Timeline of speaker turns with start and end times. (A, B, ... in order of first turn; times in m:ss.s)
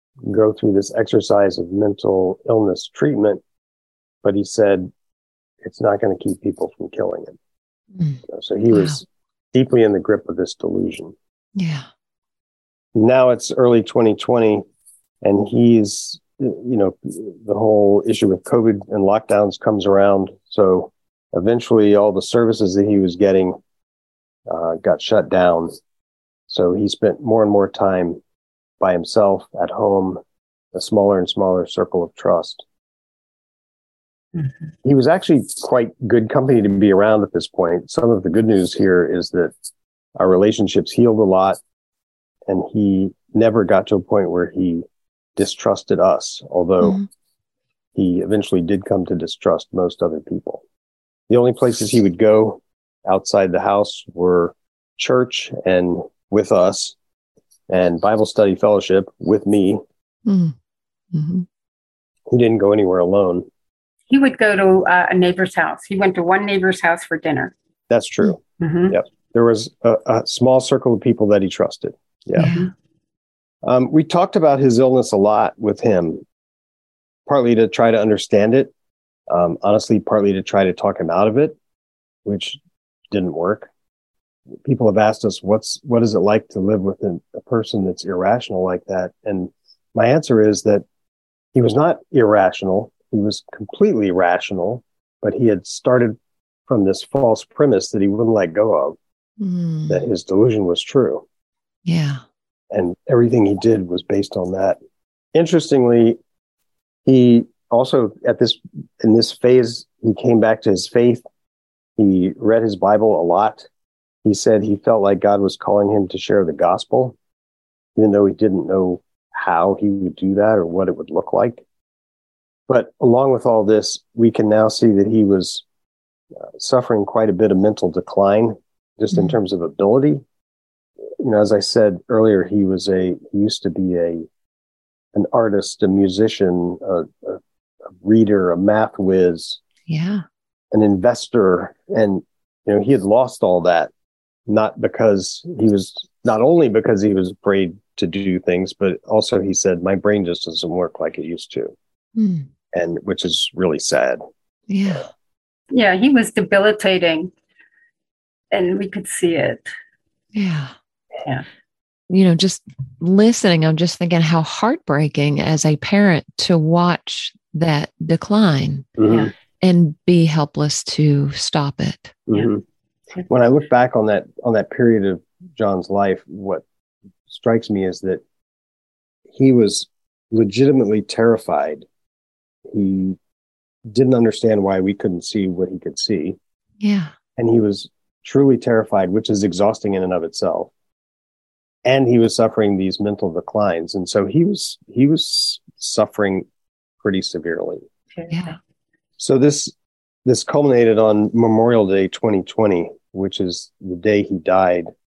0:00.2-0:03.4 A
0:04.2-0:04.9 A
0:05.6-0:07.4 A
0:08.0-0:09.0 B
0:08.3-0:11.1 A
0:11.6-0:11.9 B
0:13.0-0:14.7 A
0:15.2-0:23.6 A
0:24.5-0:25.7 A
0:26.5-0:28.2 A
0:28.8-0:30.2 A
0:30.7-0:32.6 A
0:34.8-0:39.5 A
0:40.2-0:41.6 A
0:42.5-0:47.0 A
0:46.8-0:47.1 B
0:48.0-0:50.6 A
0:51.3-0:57.0 A
0:57.7-0:59.8 A
1:00.3-1:00.6 B
1:01.1-1:01.5 B
1:02.3-1:03.5 A
1:04.1-1:07.5 C
1:07.9-1:12.5 A
1:08.6-1:09.0 C
1:12.4-1:12.7 B
1:12.4-1:12.7 C
1:13.6-1:16.2 A
1:17.3-1:18.7 A
1:19.3-1:21.6 A
1:22.2-1:22.6 A
1:23.1-1:23.7 A
1:24.6-1:30.8 A
1:31.5-1:36.2 A
1:36.7-1:39.0 A
1:39.4-1:40.1 B
1:39.9-1:41.2 A
1:41.9-1:42.2 B
1:42.7-1:44.8 A
1:45.3-1:46.2 A
1:47.0-1:51.2 A
1:52.0-1:53.7 A
1:54.2-1:57.2 A
1:58.0-2:01.6 A
2:02.7-2:05.6 A
2:06.4-2:10.2 A
2:11.2-2:14.3 A
2:15.1-2:19.6 A
2:19.9-2:20.2 B
2:20.7-2:23.9 A
2:24.5-2:31.8 A
2:32.2-2:32.5 B
2:32.7-2:34.2 A
2:34.7-2:35.1 B
2:35.7-2:37.3 C
2:38.5-2:39.7 C
2:40.3-2:40.7 B
2:42.1-2:49.0 B
2:49.0-2:49.3 A
2:49.6-2:52.2 B
2:52.3-2:52.6 A
2:53.3-2:56.6 A
2:57.3-2:58.2 A
2:59.3-3:01.9 A
3:02.7-3:03.2 A
3:03.9-3:06.4 A
3:06.8-3:07.1 B
3:07.4-3:10.7 A
3:11.9-3:16.5 A
3:17.0-3:17.8 A
3:18.2-3:18.6 C
3:18.3-3:18.6 B
3:19.2-3:19.7 A
3:20.2-3:24.9 A